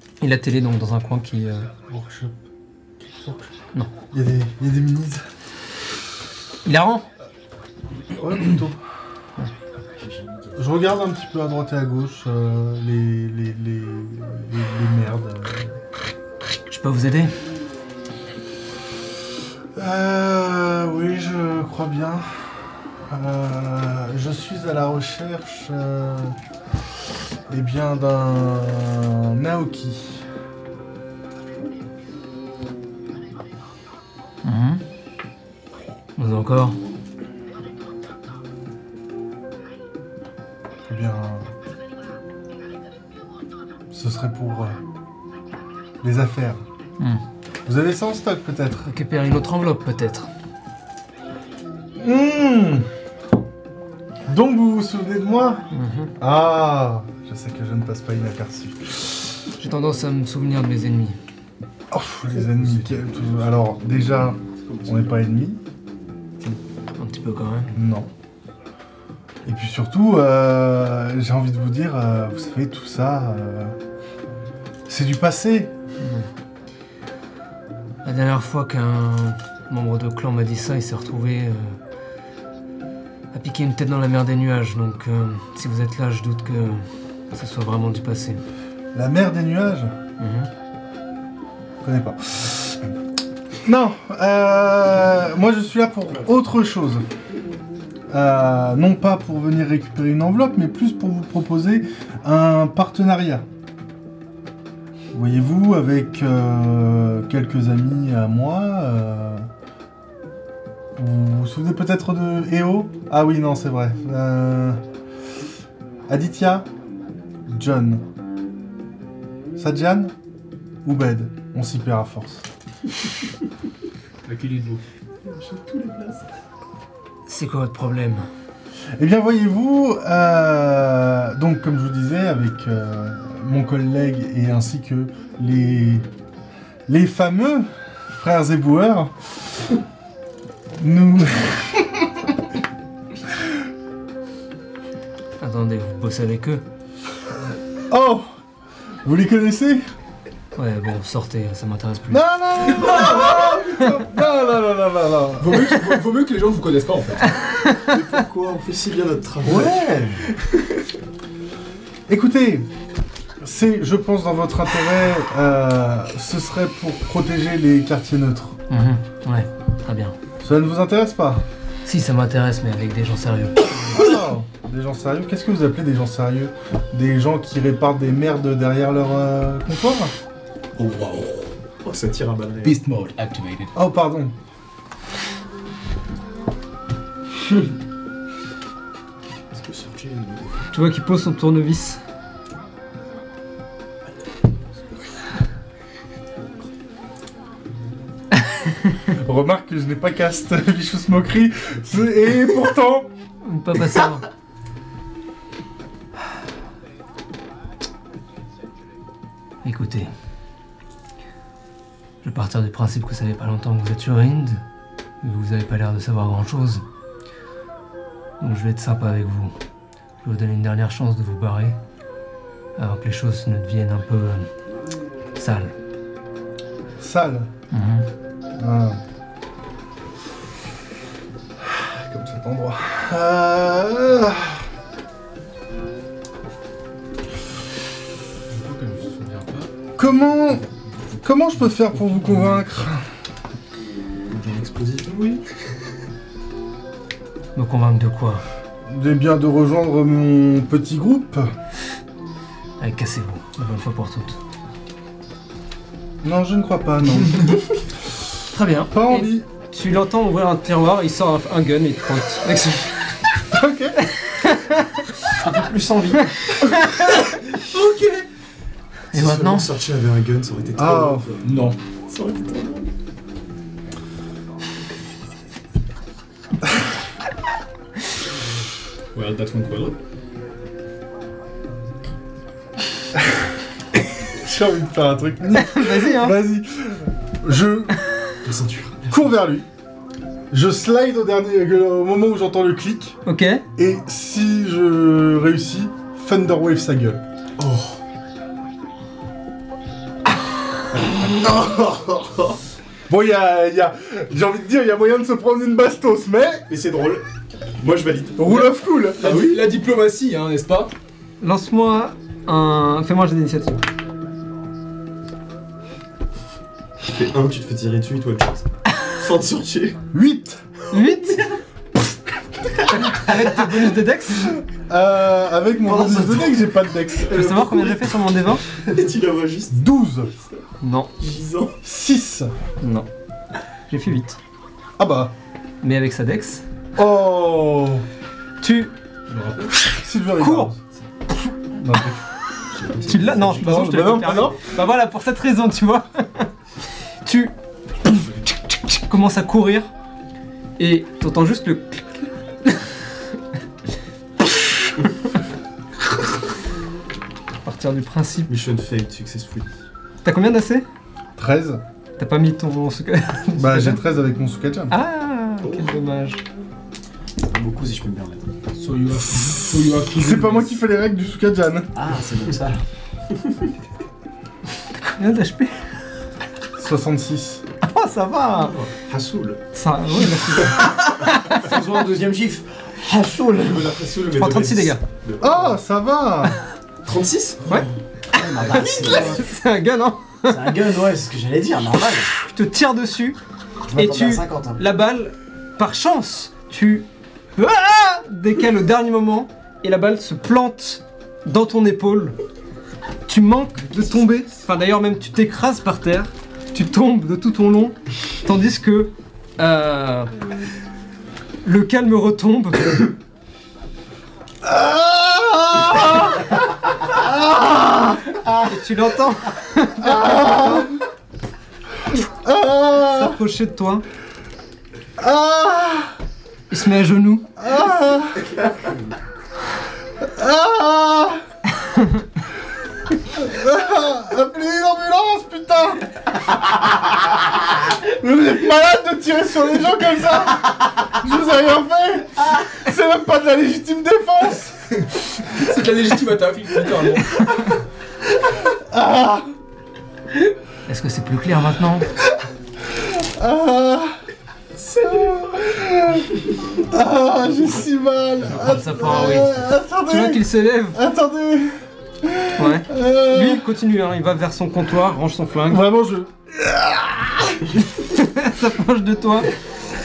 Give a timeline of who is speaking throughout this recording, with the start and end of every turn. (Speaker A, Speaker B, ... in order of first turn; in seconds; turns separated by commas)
Speaker A: 0.2-1.7, Speaker B: 1.9-2.4, Speaker B: 3.2-3.5, Speaker B: 4.1-5.2, Speaker A: 6.7-7.0, Speaker B: 8.1-8.8, Speaker C: 10.0-10.5, Speaker B: 10.6-15.8, Speaker A: 16.7-17.3, Speaker B: 19.8-22.3, Speaker B: 23.1-26.4, Speaker B: 27.5-30.2, Speaker A: 34.4-34.8, Speaker A: 36.2-36.8, Speaker B: 40.9-41.5, Speaker B: 43.9-44.8, Speaker B: 46.0-46.6, Speaker B: 47.7-48.9, Speaker A: 48.9-50.3, Speaker B: 52.0-52.9, Speaker B: 54.3-55.6, Speaker A: 55.7-56.1, Speaker B: 56.2-59.2, Speaker A: 59.6-61.2, Speaker B: 61.9-65.6, Speaker D: 62.2-63.5, Speaker D: 64.7-65.0, Speaker A: 67.0-67.8, Speaker B: 67.7-68.1, Speaker B: 69.5-73.8, Speaker B: 74.9-75.7, Speaker A: 76.0-76.3, Speaker A: 78.0-81.8, Speaker A: 83.3-88.4, Speaker B: 88.9-89.9, Speaker A: 90.2-90.5, Speaker B: 91.8-92.9, Speaker B: 93.6-97.0, Speaker B: 98.1-103.5, Speaker B: 105.1-109.5, Speaker B: 111.0-114.8, Speaker B: 116.1-116.7, Speaker B: 117.5-118.0, Speaker B: 119.6-120.1, Speaker B: 120.8-122.5, Speaker D: 124.3-124.8, Speaker E: 125.2-126.3, Speaker A: 127.3-128.2, Speaker B: 129.0-136.1, Speaker B: 136.9-139.1, Speaker B: 140.8-142.3, Speaker A: 145.4-146.6, Speaker B: 147.9-148.3, Speaker B: 149.1-149.8, Speaker A: 150.6-152.2, Speaker B: 152.1-155.8, Speaker E: 152.9-153.4, Speaker D: 155.4-157.4, Speaker A: 157.6-157.9, Speaker E: 157.8-160.0, Speaker B: 159.4-160.2, Speaker B: 162.1-162.7, Speaker B: 163.4-168.6, Speaker A: 168.7-170.2, Speaker B: 170.4-171.4, Speaker A: 171.8-174.0, Speaker B: 173.9-180.1, Speaker D: 180.8-181.5, Speaker E: 181.8-182.8, Speaker D: 182.6-183.7, Speaker B: 183.8-184.3, Speaker E: 189.5-190.7, Speaker A: 190.7-192.0, Speaker B: 199.1-203.1, Speaker A: 203.4-204.2, Speaker A: 209.6-210.1, Speaker A: 212.2-214.6, Speaker A: 215.2-216.8, Speaker A: 218.4-219.5, Speaker A: 220.2-221.8, Speaker A: 222.8-224.5, Speaker A: 225.4-225.7, Speaker B: 227.0-227.5, Speaker A: 227.7-228.1, Speaker B: 228.6-229.0, Speaker B: 231.6-234.7, Speaker D: 238.5-239.7, Speaker B: 240.0-240.7, Speaker B: 241.2-243.1, Speaker D: 241.9-242.5, Speaker E: 244.3-245.4, Speaker A: 247.6-248.4, Speaker B: 248.9-251.5, Speaker A: 252.8-254.4, Speaker B: 256.2-257.6, Speaker A: 258.5-263.2, Speaker B: 258.9-259.5, Speaker B: 263.5-264.1, Speaker A: 264.1-265.0, Speaker C: 265.4-266.2, Speaker E: 265.6-266.1, Speaker A: 266.6-267.2, Speaker E: 267.6-268.2, Speaker A: 269.1-269.7, Speaker E: 269.1-271.5, Speaker B: 270.8-271.3, Speaker D: 271.4-271.8, Speaker E: 272.1-272.9, Speaker D: 279.1-280.0, Speaker B: 284.4-288.0, Speaker A: 285.5-286.4, Speaker E: 288.4-289.2, Speaker B: 289.1-289.7, Speaker B: 290.5-293.2, Speaker A: 293.3-293.6, Speaker B: 293.8-297.2, Speaker E: 297.6-298.0, Speaker E: 301.1-302.6, Speaker B: 303.1-306.6, Speaker E: 306.7-307.2, Speaker E: 307.8-308.6, Speaker B: 308.4-309.3, Speaker D: 309.2-310.9, Speaker E: 309.2-309.6, Speaker A: 311.4-313.8, Speaker E: 317.1-320.0, Speaker B: 320.1-320.6, Speaker A: 320.9-321.5, Speaker A: 322.9-324.6, Speaker B: 324.8-327.4, Speaker E: 325.8-329.8, Speaker A: 327.3-328.6, Speaker B: 329.7-330.3, Speaker A: 330.8-331.1, Speaker E: 331.2-331.8, Speaker B: 331.8-332.5, Speaker A: 332.8-333.1, Speaker A: 333.9-334.4, Speaker B: 335.0-335.3, Speaker A: 335.8-336.6, Speaker B: 337.0-338.1, Speaker A: 338.6-338.9, Speaker D: 339.3-339.8, Speaker A: 339.9-340.7, Speaker B: 340.0-340.8, Speaker A: 341.3-341.5, Speaker B: 341.7-342.2, Speaker E: 342.8-343.6, Speaker A: 343.0-346.5, Speaker B: 343.5-344.6, Speaker A: 347.2-347.5, Speaker A: 348.1-349.9, Speaker A: 350.8-352.8, Speaker A: 357.6-358.5, Speaker E: 358.5-359.7, Speaker A: 360.2-360.9, Speaker B: 361.4-361.8, Speaker A: 362.2-364.0, Speaker B: 363.6-364.9, Speaker A: 364.9-366.4, Speaker E: 365.6-365.9, Speaker C: 367.5-368.4, Speaker D: 368.8-370.7, Speaker B: 370.1-371.9, Speaker C: 371.9-372.8, Speaker A: 375.0-375.9, Speaker B: 376.8-377.6, Speaker A: 377.8-378.8, Speaker E: 378.6-379.6, Speaker A: 379.7-381.6, Speaker C: 381.5-383.9, Speaker E: 383.7-385.8, Speaker A: 384.4-385.0, Speaker B: 385.4-386.6, Speaker E: 387.0-387.9, Speaker A: 387.7-390.8, Speaker C: 388.3-389.4, Speaker C: 390.5-392.3, Speaker A: 392.3-393.4, Speaker C: 393.9-394.8, Speaker A: 393.9-402.4, Speaker A: 403.3-410.3, Speaker A: 411.6-413.1, Speaker B: 414.6-418.4, Speaker A: 418.6-420.2, Speaker B: 420.0-421.0, Speaker B: 422.1-423.4, Speaker A: 423.1-424.1, Speaker B: 425.2-426.2, Speaker A: 426.7-427.5, Speaker B: 427.6-428.5, Speaker B: 430.2-431.4, Speaker B: 433.3-436.1, Speaker B: 437.8-445.5, Speaker D: 445.5-447.5, Speaker B: 448.5-449.5, Speaker A: 450.9-452.1, Speaker B: 452.9-454.2, Speaker B: 454.8-463.6, Speaker A: 458.5-461.0, Speaker A: 462.6-465.9, Speaker B: 465.7-467.7, Speaker A: 467.9-469.5